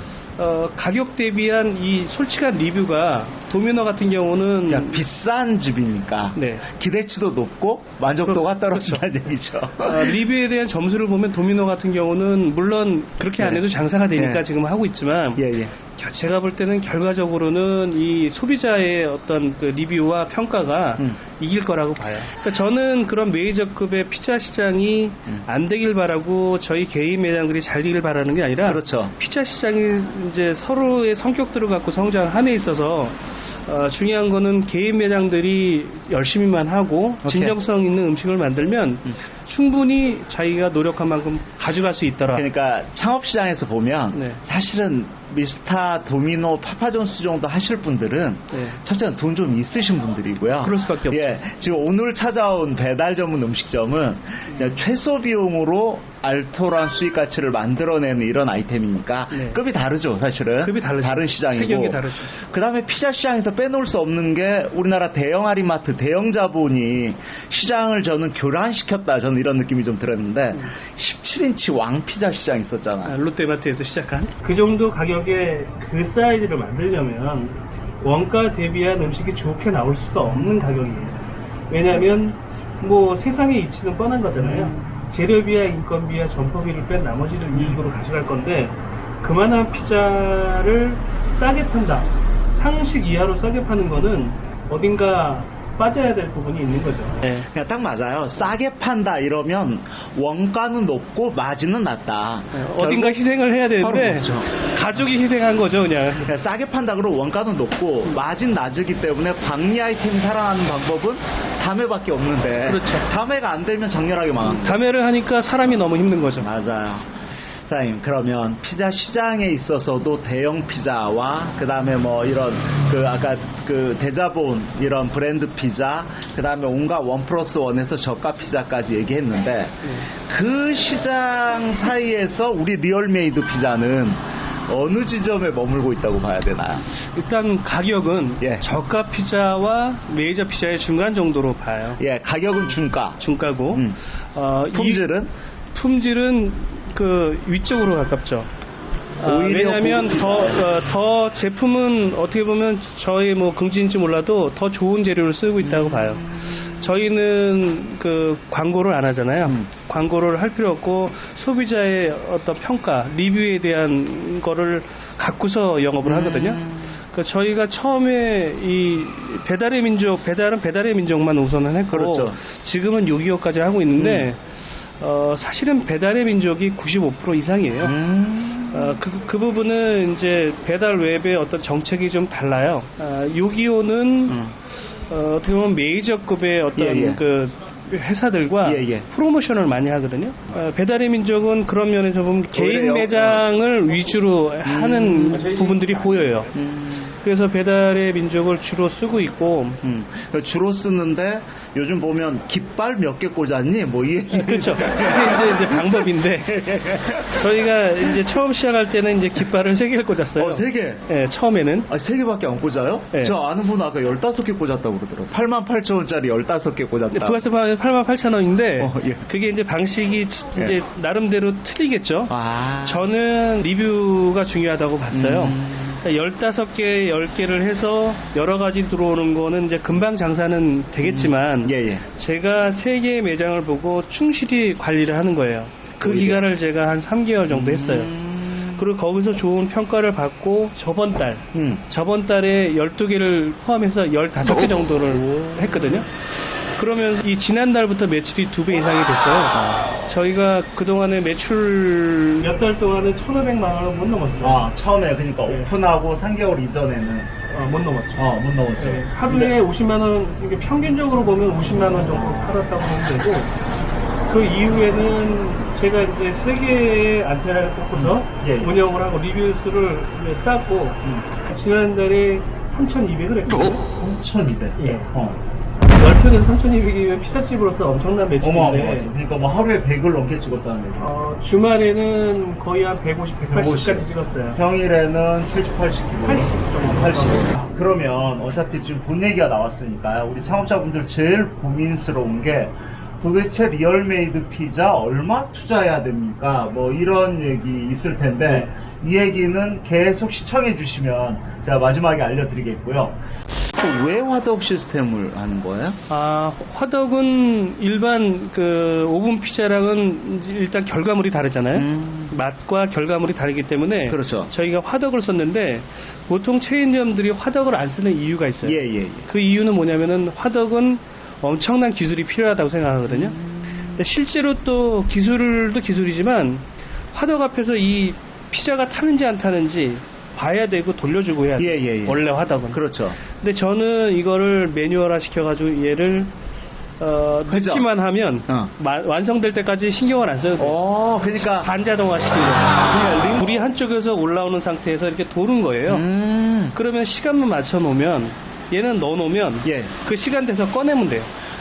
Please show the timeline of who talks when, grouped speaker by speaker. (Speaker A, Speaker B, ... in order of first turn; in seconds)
Speaker A: 0.4-5.0, 6.3-6.7, 8.3-9.0, 9.8-42.5, 44.1-44.4, 48.5-48.8, 50.6-51.3, 59.3-59.6, 60.6-62.4, 73.0-81.2, 81.7-97.5, 102.5-106.3, 112.6-113.1, 114.4-116.5, 137.1-142.0, 143.2-145.1, 145.7-148.5, 149.2-174.4, 175.0-178.0, 178.7-184.4, 185.1-196.5, 197.1-199.8, 204.3-211.9, 213.1-213.4, 217.1-246.2, 246.8-254.7, 257.5-258.2, 258.8-263.5, 264.3-273.9, 274.8-275.1, 275.8-279.1, 281.0-284.6, 286.2-287.5, 306.1-323.4, 323.9-336.3, 337.0-340.8, 341.3-346.1, 346.7-351.3
Speaker B: 4.7-10.2, 13.3-14.4, 15.4-15.7, 28.6-29.1, 37.2-37.5, 42.3-73.2, 80.3-80.5, 84.3-85.1, 97.3-103.2, 103.7-104.5, 106.2-114.8, 116.4-136.8, 138.4-138.7, 142.0-143.2, 143.7-144.0, 144.7-145.3, 149.2-150.7, 155.6-156.9, 166.0-167.0, 171.9-172.4, 174.0-174.3, 177.8-179.0, 184.3-184.5, 186.7-187.2, 188.6-189.1, 192.5-193.5, 194.6-197.1, 199.8-208.2, 210.3-211.0, 211.9-217.4, 218.8-219.3, 222.3-223.1, 225.1-226.0, 231.0-232.0, 236.0-236.4, 237.5-238.8, 241.5-241.8, 245.1-246.0, 249.5-249.9, 254.4-257.3, 258.1-259.5, 261.9-262.6, 267.9-268.7, 273.9-275.4, 278.4-281.1, 283.5-303.2, 303.7-306.0, 311.7-312.3, 314.1-314.5, 318.6-319.3, 323.1-324.0, 331.6-333.2, 337.5-337.9, 340.6-341.7, 342.7-343.4, 345.9-346.7, 349.6-349.9